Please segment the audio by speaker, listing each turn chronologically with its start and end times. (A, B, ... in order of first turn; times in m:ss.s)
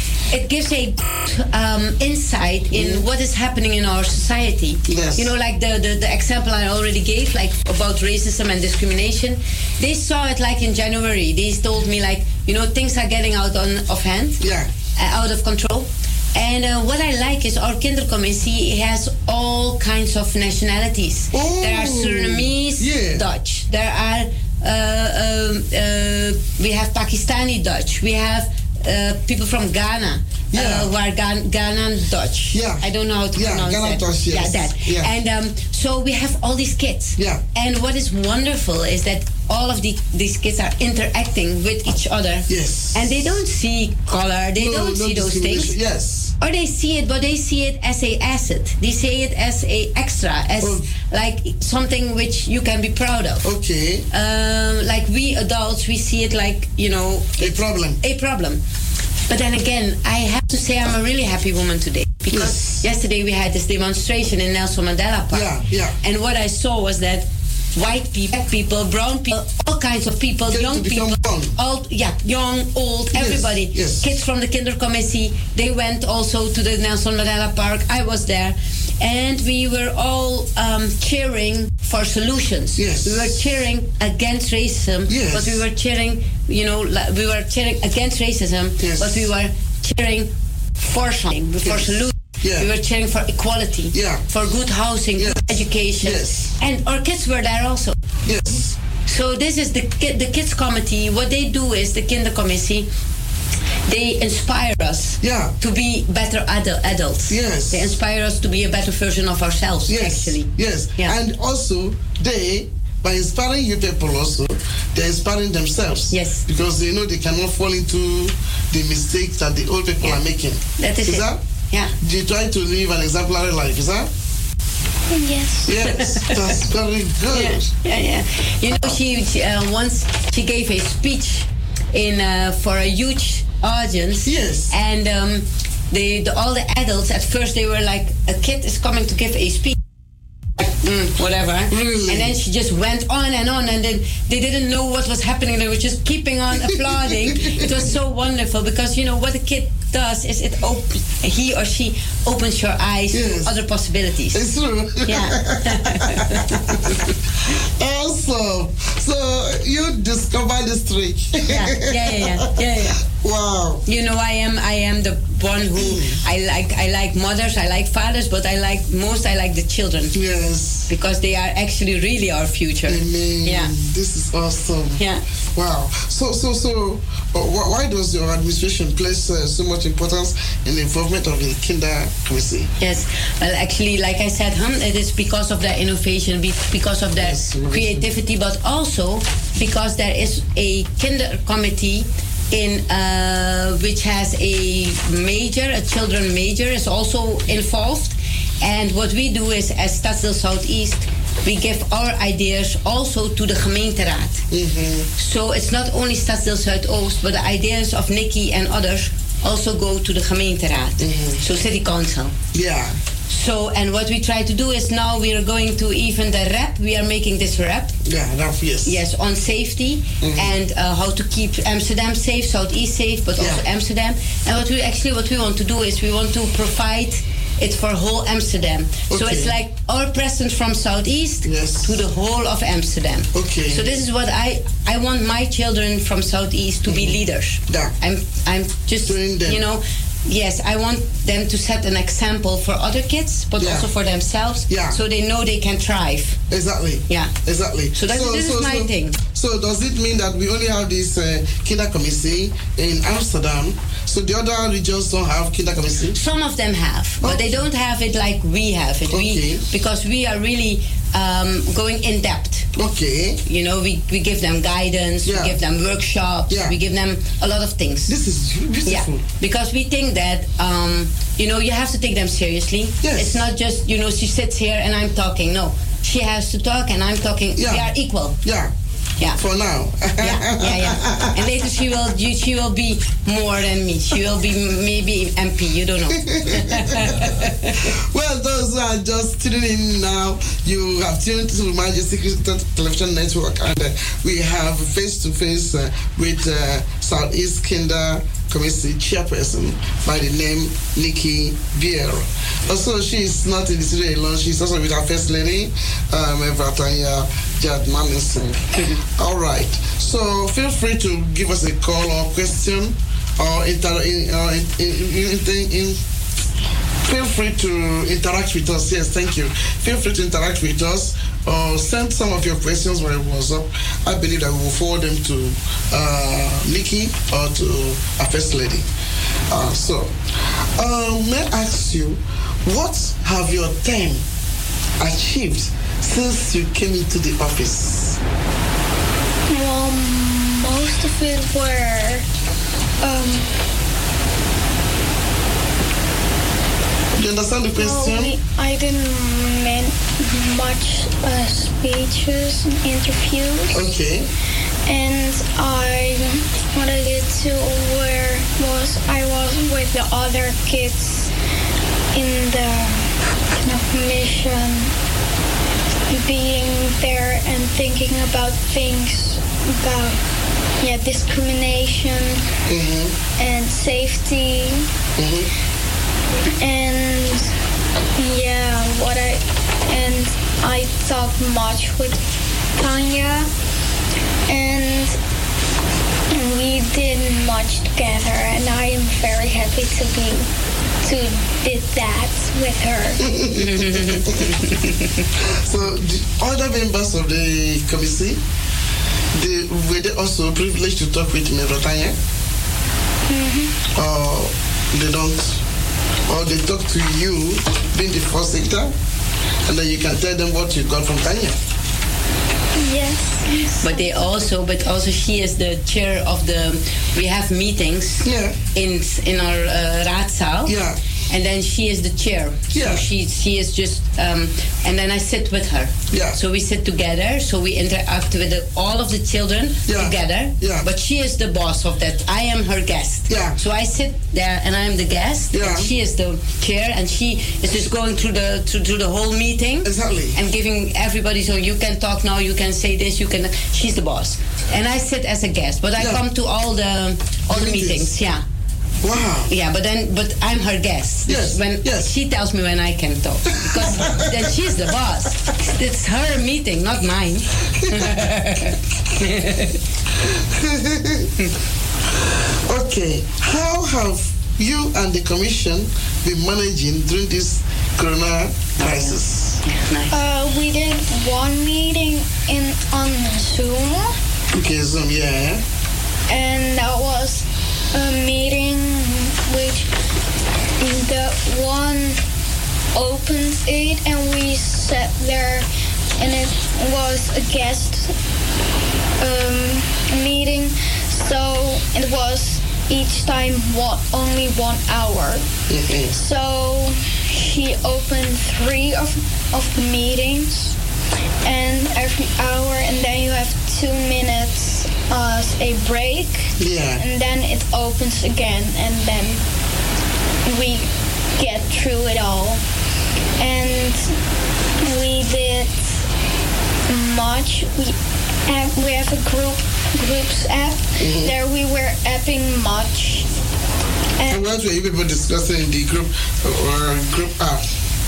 0:00.3-0:14.4 A
0:02.7-0:03.0 B
0:04.9-0:05.3 B
0:14.4-0:14.7 B
0:14.9-0:45.8 A
0:21.3-0:23.2 B
0:30.5-0:30.9 B
0:32.5-0:35.1 B
0:42.5-0:43.3 B
0:44.6-0:46.3 B
0:46.4-0:53.4 A
0:50.6-0:50.9 B
0:53.4-0:54.0 B
0:54.1-0:58.6 A
0:57.4-0:58.0 B
0:59.3-1:38.0 A
1:02.3-1:02.8 B
1:05.3-1:06.0 B
1:10.4-1:11.6 B
1:13.1-1:14.0 B
1:22.8-1:23.5 B
1:25.1-1:25.6 B
1:28.8-1:29.3 B
1:31.6-1:32.7 B
1:33.9-1:34.2 B
1:35.2-1:36.5 B
1:38.2-1:38.8 B
1:39.1-1:42.9 A
1:43.9-1:51.2 A
1:45.2-1:45.5 B
1:47.3-1:47.9 B
1:49.9-2:01.4 B
1:56.1-1:56.4 A
2:00.8-2:01.9 A
2:02.0-2:04.1 B
2:05.1-2:05.7 C
2:05.6-2:07.8 B
2:05.8-2:06.6 A
2:07.3-2:19.8 A
2:08.7-2:09.0 B
2:14.2-2:14.7 B
2:20.6-2:34.4 A
2:21.7-2:22.4 B
2:33.1-2:33.6 B
2:34.3-2:37.0 B
2:35.0-2:36.9 A
2:37.5-2:43.8 B
2:41.4-2:43.0 A
2:43.9-2:50.1 A
2:45.7-2:46.2 B
2:50.1-2:50.9 B
2:50.9-2:53.7 A
2:52.9-2:55.0 B
2:55.0-2:55.2 A
2:55.6-3:02.7 B
3:02.8-3:24.4 A
3:07.2-3:08.1 B
3:24.5-3:25.1 B
3:25.2-3:32.4 A
3:31.0-3:31.4 B
3:32.5-3:33.0 B
3:33.3-3:37.9 A
3:38.0-3:39.0 B
3:38.8-4:06.4 A
3:40.2-3:40.5 B
3:43.4-3:43.6 B
3:49.1-3:49.5 B
3:51.4-3:52.0 B
3:53.3-3:54.0 B
3:56.9-3:57.9 B
3:59.0-3:59.6 B
4:03.6-4:03.9 B
4:04.7-4:05.0 B
4:06.5-4:16.2 B
4:07.9-4:09.2 A
4:16.1-4:22.7 A
4:17.2-4:17.6 B
4:19.1-4:19.7 B
4:22.7-4:23.4 B
4:23.4-4:28.2 A
4:25.2-4:25.6 B
4:26.5-4:26.8 B
4:28.1-4:29.2 B
4:28.8-4:38.4 A
4:33.0-4:33.4 B
4:37.6-4:37.9 B
4:38.4-4:38.7 B
4:39.4-4:41.5 B
4:40.2-4:47.9 A
4:46.1-5:16.0 B
5:17.0-5:28.9 B
5:29.5-5:34.2 B
5:35.0-5:38.2 B
5:39.5-5:42.2 C
5:43.0-5:43.5 C
5:47.2-5:48.3 B
5:47.7-5:53.9 C
5:53.7-5:54.3 B
5:54.8-6:01.3 C
6:02.1-6:04.9 C
6:06.1-6:10.2 C
6:10.8-6:12.4 C
6:12.7-6:13.1 B
6:13.4-6:14.9 C
6:15.2-6:15.5 B
6:16.6-6:17.5 C
6:18.2-6:22.2 C
6:22.8-6:23.5 C
6:24.5-6:25.2 C
6:26.3-6:30.5 C
6:31.0-6:33.2 C
6:33.2-6:34.5 B
6:33.6-6:35.0 A
6:35.4-6:38.4 B
6:39.3-6:42.2 B
6:43.3-6:43.7 C
6:43.9-6:45.6 B
6:46.3-6:48.9 B
6:49.6-6:51.6 B
6:52.8-6:54.2 C
6:53.8-7:00.8 A
6:58.2-6:58.6 B
7:00.6-7:01.0 B
7:01.3-7:28.4 A
7:02.7-7:03.1 B
7:06.1-7:06.4 B
7:09.8-7:10.9 B
7:13.3-7:13.6 B
7:15.5-7:15.9 B
7:19.8-7:20.4 B
7:26.0-7:26.2 B
7:27.5-7:28.1 B
7:29.0-7:29.5 B
7:29.5-7:39.8 A
7:31.3-7:32.1 B
7:33.6-7:34.5 B
7:37.7-7:38.3 B
7:40.2-7:41.3 B
7:42.2-7:49.6 B
7:48.8-7:50.1 A
7:50.1-7:54.1 C
7:54.6-7:55.6 B
7:56.3-7:59.9 C
8:00.8-8:02.2 C
8:02.9-8:05.6 C
8:06.2-8:08.1 C
8:09.2-8:15.4 C
8:15.7-8:16.2 B
8:16.1-8:20.7 C
8:21.4-8:29.4 C
8:26.6-8:27.0 B
8:30.4-8:32.6 C
8:33.4-8:34.1 C
8:34.8-8:36.0 C
8:36.9-8:37.9 C
8:38.4-8:43.3 C
8:41.0-8:41.3 B
8:44.2-8:44.5 C
8:44.3-8:47.7 B